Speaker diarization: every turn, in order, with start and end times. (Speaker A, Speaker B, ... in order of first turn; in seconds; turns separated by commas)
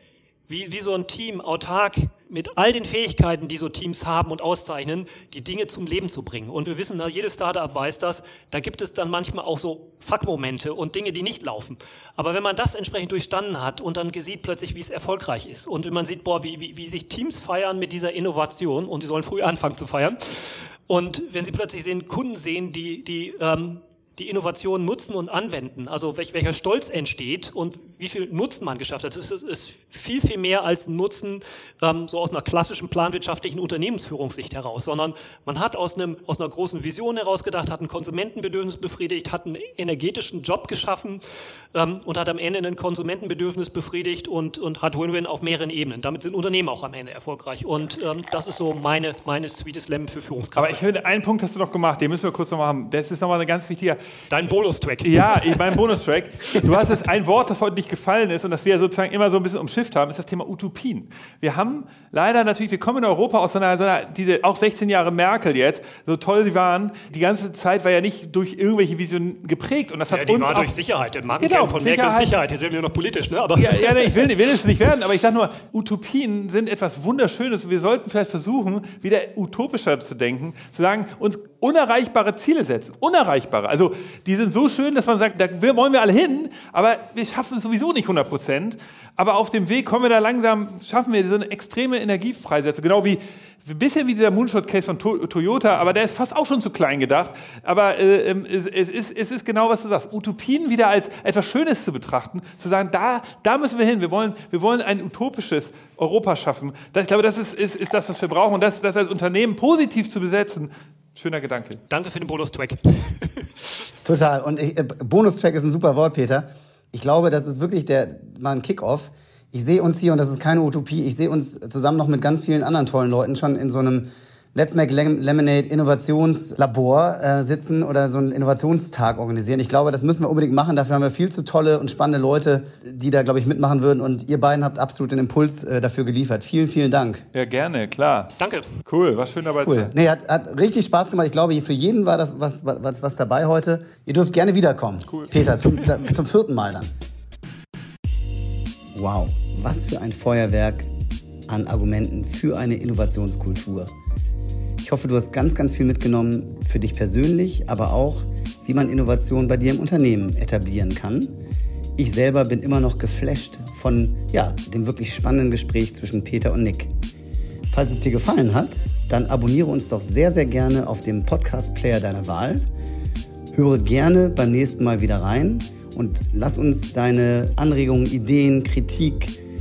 Speaker A: 0.5-41.2, Speaker A: 41.7-50.8, Speaker B: 50.6-54.0, Speaker A: 54.3-55.8, Speaker B: 55.0-70.7, Speaker A: 70.1-74.6, Speaker B: 71.4-72.3, Speaker B: 73.5-111.8, Speaker A: 111.9-113.8, Speaker C: 114.0-137.2, Speaker B: 137.3-139.9, Speaker A: 138.4-138.7, Speaker C: 139.6-146.9, Speaker C: 148.9-150.9, Speaker C: 151.5-153.9, Speaker C: 154.8-161.4, Speaker C: 162.0-166.9, Speaker C: 167.7-172.7, Speaker C: 173.5-179.4